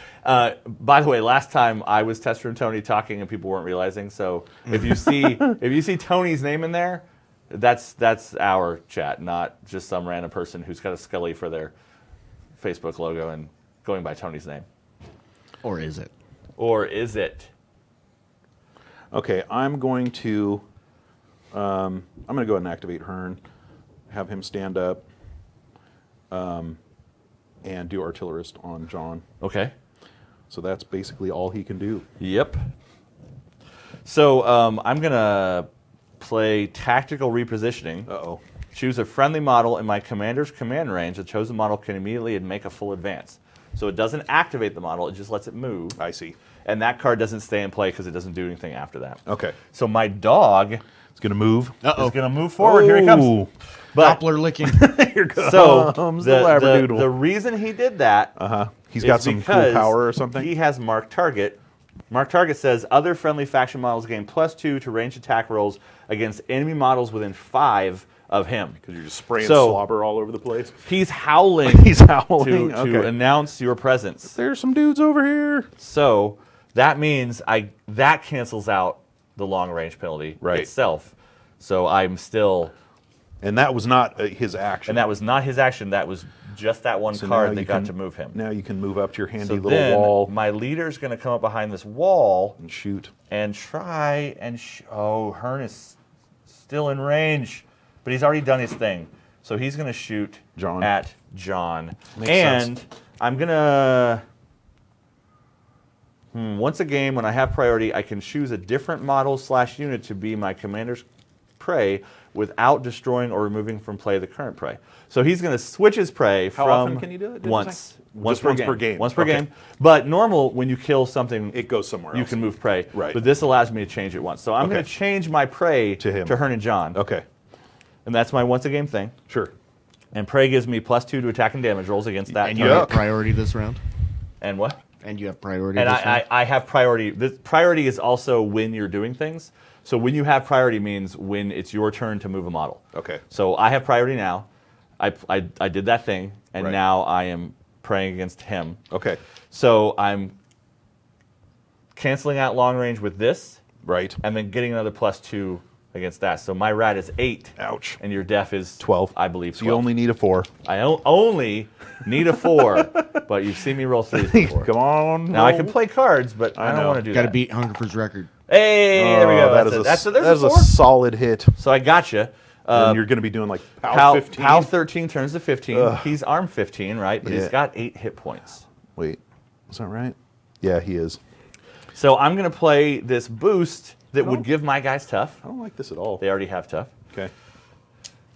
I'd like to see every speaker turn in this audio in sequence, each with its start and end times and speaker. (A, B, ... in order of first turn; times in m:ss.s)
0:00.2-0:11.7 A
0:04.7-0:05.5 B
0:12.6-0:14.6 A
0:15.6-0:16.1 C
0:16.6-0:17.5 A
0:19.1-0:20.6 B
0:21.5-0:23.4 B
0:24.1-0:25.0 B
0:26.3-0:26.8 B
0:27.6-0:29.2 B
0:29.4-0:29.7 A
0:30.5-0:32.0 B
0:32.2-0:32.6 A
0:34.0-0:35.7 A
0:36.2-0:38.1 A
0:38.1-0:38.4 B
0:38.7-0:46.0 A
0:46.0-0:46.4 B
0:46.6-0:50.8 A
0:49.2-0:49.6 B
0:51.2-0:52.0 B
0:51.8-0:52.2 C
0:51.9-0:53.4 A
0:52.6-0:53.5 B
0:53.9-0:54.2 A
0:54.0-0:54.8 C
0:54.6-0:57.1 B
0:55.4-0:58.3 A
0:58.4-1:00.5 B
0:59.0-1:01.6 A
1:02.1-1:08.8 A
1:08.8-1:10.8 B
1:09.4-1:09.8 A
1:10.8-1:14.4 A
1:11.6-1:13.1 B
1:14.3-1:15.7 B
1:15.8-1:22.7 A
1:20.4-1:20.7 B
1:23.4-1:25.1 B
1:24.9-1:28.4 A
1:27.1-1:30.3 B
1:29.4-1:32.6 A
1:32.6-1:33.1 B
1:33.3-1:36.0 A
1:36.5-1:44.2 A
1:40.6-1:40.9 B
1:42.1-1:42.7 B
1:46.3-1:51.0 A
1:51.6-2:01.6 A
1:56.6-1:59.4 B
2:01.5-2:02.4 B
2:02.1-2:07.0 A
2:02.9-2:03.2 B
2:04.6-2:04.9 B
2:06.0-2:06.4 B
2:06.9-2:07.2 B
2:08.0-2:09.1 A
2:10.1-2:13.0 A
2:12.4-2:13.1 B
2:12.4-2:13.8 C
2:14.4-2:14.8 A
2:15.0-2:16.2 C
2:15.7-2:24.5 A
2:22.9-2:23.2 B
2:25.0-2:28.8 A
2:28.9-2:29.2 B
2:29.5-2:30.3 A
2:31.9-2:33.6 A
2:33.8-2:34.2 B
2:34.2-2:39.9 A
2:37.6-2:38.0 B
2:38.8-2:40.5 B
2:40.6-2:44.7 A
2:42.8-2:43.0 B
2:44.1-2:45.8 B
2:45.3-2:47.4 A
2:46.5-2:47.0 B
2:47.1-2:48.3 C
2:48.5-2:50.8 A
2:48.9-2:51.6 B
2:51.6-2:53.0 A
2:52.7-2:54.7 B
2:53.9-2:58.6 A
2:55.7-2:56.1 B
2:57.2-2:57.5 B
2:59.0-3:01.2 B
3:01.9-3:05.4 A
3:04.2-3:04.4 B
3:05.4-3:06.2 B
3:06.2-3:06.9 A